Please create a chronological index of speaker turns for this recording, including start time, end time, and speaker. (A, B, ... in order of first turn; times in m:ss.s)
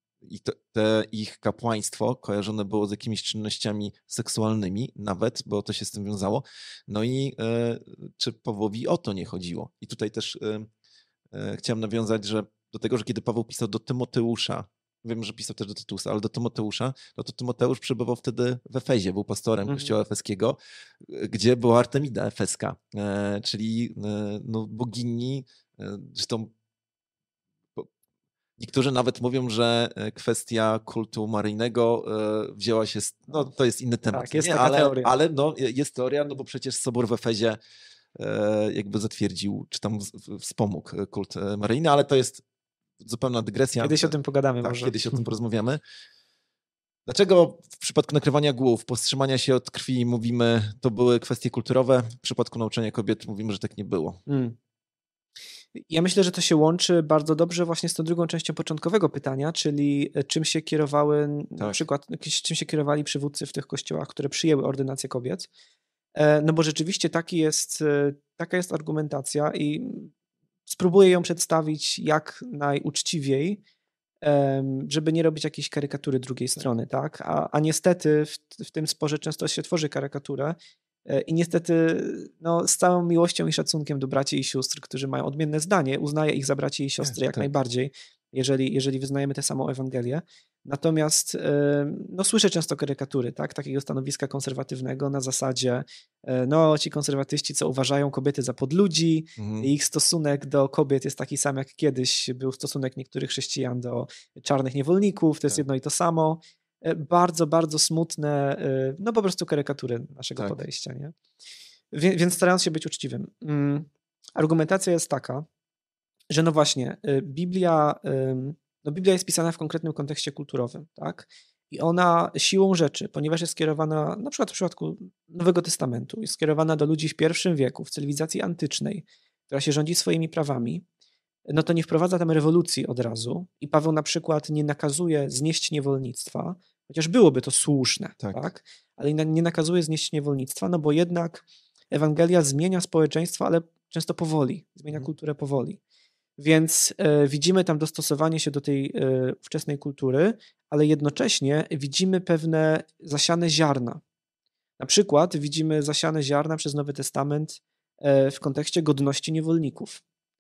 0:00.2-0:10.7 A
0:11.3-0:26.5 A
0:19.7-0:20.0 B
0:28.6-0:37.6 A
0:34.1-0:35.1 B
0:38.2-0:42.4 A
0:43.0-0:45.8 A
0:43.8-0:45.3 B
0:47.1-0:54.2 A
0:54.3-0:54.6 B
0:55.8-1:05.5 B
1:06.2-1:10.1 B
1:10.7-1:13.6 B
1:14.2-1:20.6 B
1:21.1-1:51.2 B
1:27.0-1:27.5 A
1:39.4-1:39.7 A
1:51.9-1:55.5 B
1:56.3-2:10.8 B
2:11.5-2:25.8 B
2:26.4-2:34.0 B
2:34.8-2:40.0 B